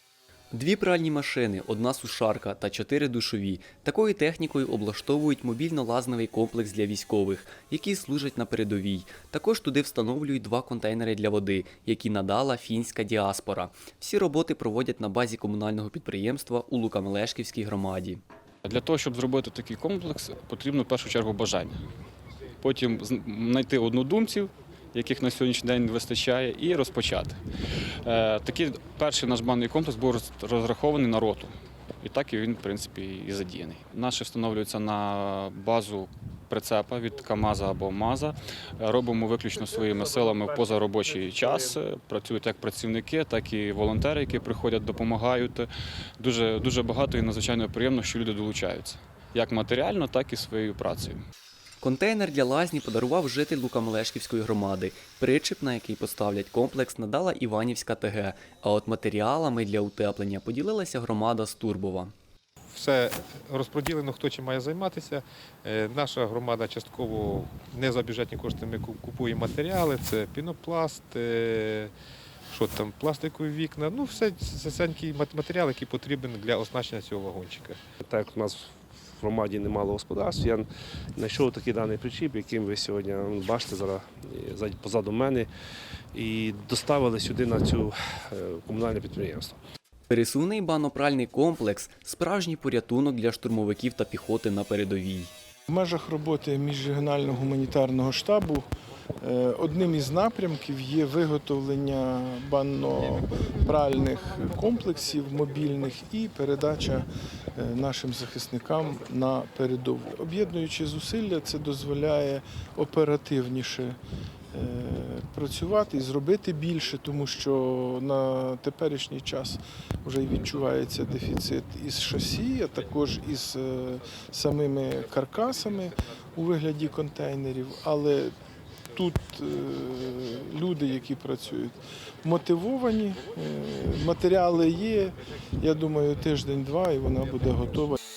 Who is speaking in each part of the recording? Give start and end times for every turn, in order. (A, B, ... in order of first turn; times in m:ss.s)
0:00.5-0:18.2 A
0:18.6-0:21.8 B
0:22.6-0:27.4 B
0:28.0-0:51.2 B
0:51.8-1:02.1 A
1:02.7-1:11.9 C
1:12.5-1:17.8 C
1:18.1-1:18.7 D
1:19.2-1:25.5 D
1:26.1-1:29.6 D
1:30.1-1:35.3 A
1:35.7-1:38.7 E
1:39.2-1:54.0 E
1:54.5-2:08.4 E
2:08.9-2:18.0 E